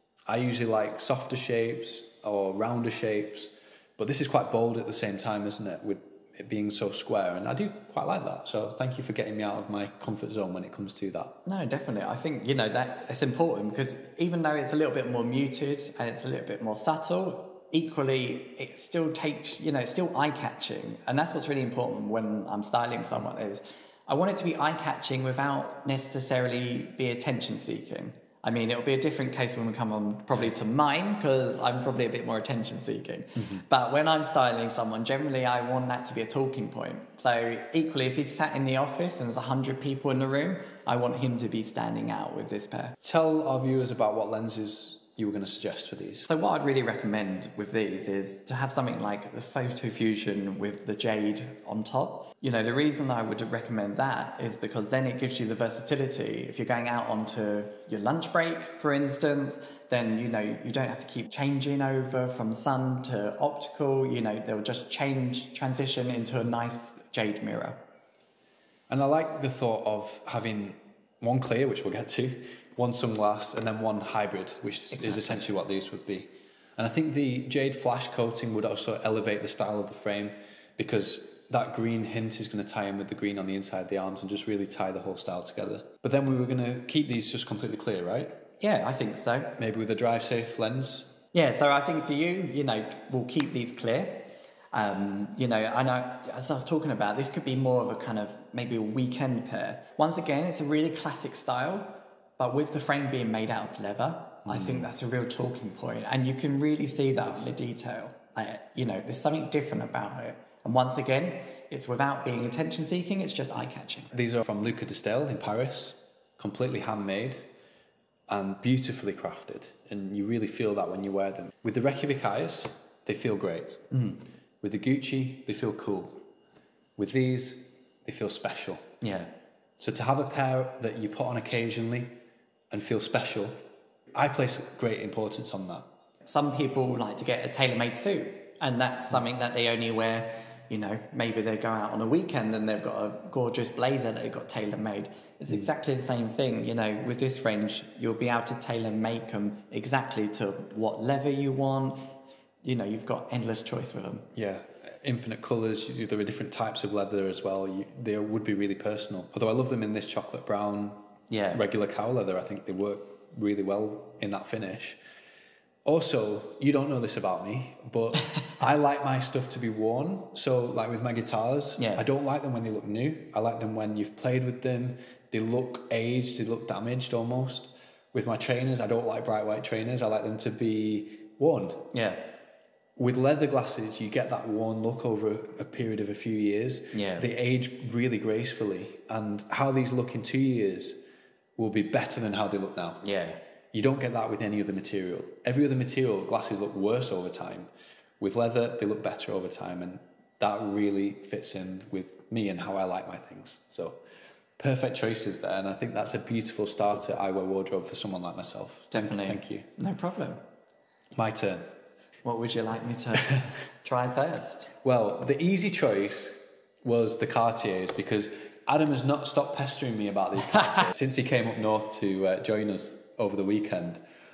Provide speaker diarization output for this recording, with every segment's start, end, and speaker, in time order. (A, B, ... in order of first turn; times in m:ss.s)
0:00.3-0:11.4 A
0:11.4-0:43.0 B
0:43.0-0:46.3 A
0:46.3-1:07.8 B
1:08.9-1:28.4 A
1:14.9-1:15.5 B
1:28.6-1:29.5 B
1:29.6-1:31.2 A
1:31.3-1:54.1 B
1:44.5-1:44.9 A
1:54.1-1:57.5 A
1:58.3-2:03.9 A
2:03.9-2:04.2 B
2:04.6-2:06.2 A
2:07.0-2:08.9 A
2:09.0-2:09.3 B
2:09.8-2:12.1 A
2:12.7-2:13.6 A
2:14.2-2:15.8 A
2:16.2-2:32.1 B
2:32.6-2:34.3 B
2:34.4-2:41.0 A
2:41.3-2:41.6 B
2:41.5-2:45.0 A
2:45.8-3:01.9 A
2:51.8-2:52.0 B
3:01.9-3:02.2 B
3:03.0-3:11.0 A
3:06.9-3:07.3 B
3:11.6-3:13.0 A
3:13.0-3:13.4 B
3:13.7-3:24.0 A
3:24.6-3:29.7 A
3:28.9-3:30.4 B
3:31.1-3:31.6 A
3:32.2-3:34.7 B
3:34.8-3:44.0 A